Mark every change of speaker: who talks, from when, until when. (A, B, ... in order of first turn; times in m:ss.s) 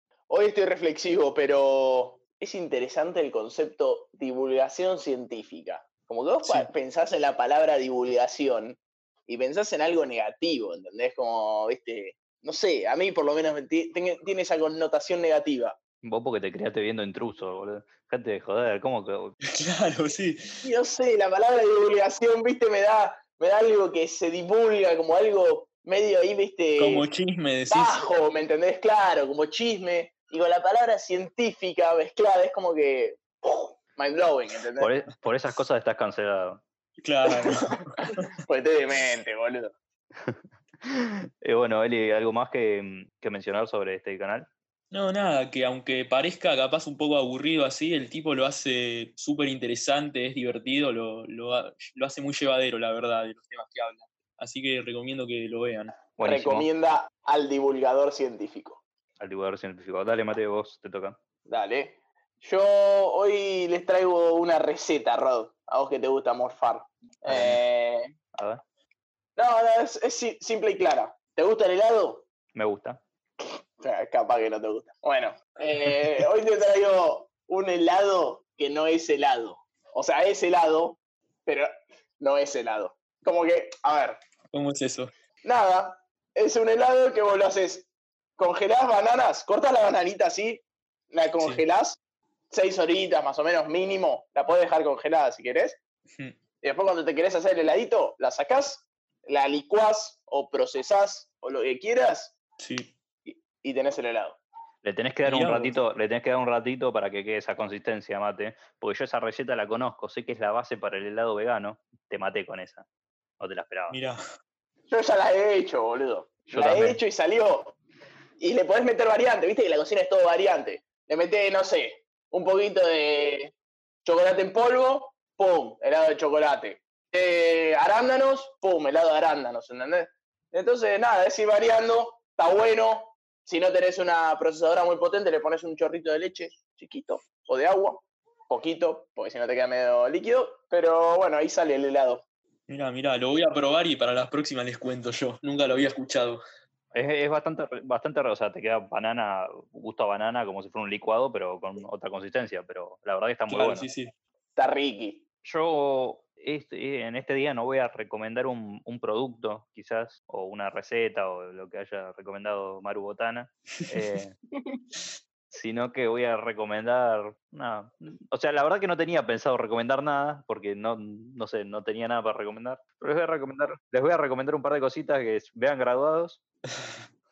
0:00.3-0:15.8 A
0:06.4-0:06.7 B
0:16.0-0:19.3 C
0:19.4-0:20.7 B
0:20.6-0:27.0 A
0:26.8-0:28.0 B
0:27.7-0:34.9 A
0:34.8-0:36.6 C
0:37.0-0:38.3 B
0:38.5-0:39.7 A
0:40.2-0:44.5 C
0:44.9-0:56.0 B
0:56.2-0:56.7 C
0:56.2-0:58.8 A
0:59.2-1:01.2 C
1:01.5-1:08.1 A
1:07.3-1:07.6 C
1:08.4-1:08.6 C
1:09.4-1:12.2 A
1:12.5-1:13.0 C
1:13.4-1:24.2 A
1:24.5-1:25.1 B
1:25.4-1:32.0 A
1:32.5-1:35.8 A
1:36.6-1:42.4 A
1:42.6-1:43.0 B
1:43.3-1:44.4 A
1:44.8-1:52.8 C
1:45.2-1:45.7 B
1:53.4-1:54.0 C
1:53.9-1:54.2 B
1:54.9-1:57.8 A
1:56.5-1:57.0 C
1:58.4-2:03.5 A
2:04.0-2:22.2 A
2:22.7-2:26.4 B
2:26.9-2:33.9 C
2:33.5-2:34.1 B
2:34.6-2:35.2 A
2:35.4-2:44.4 C
2:45.5-2:56.4 C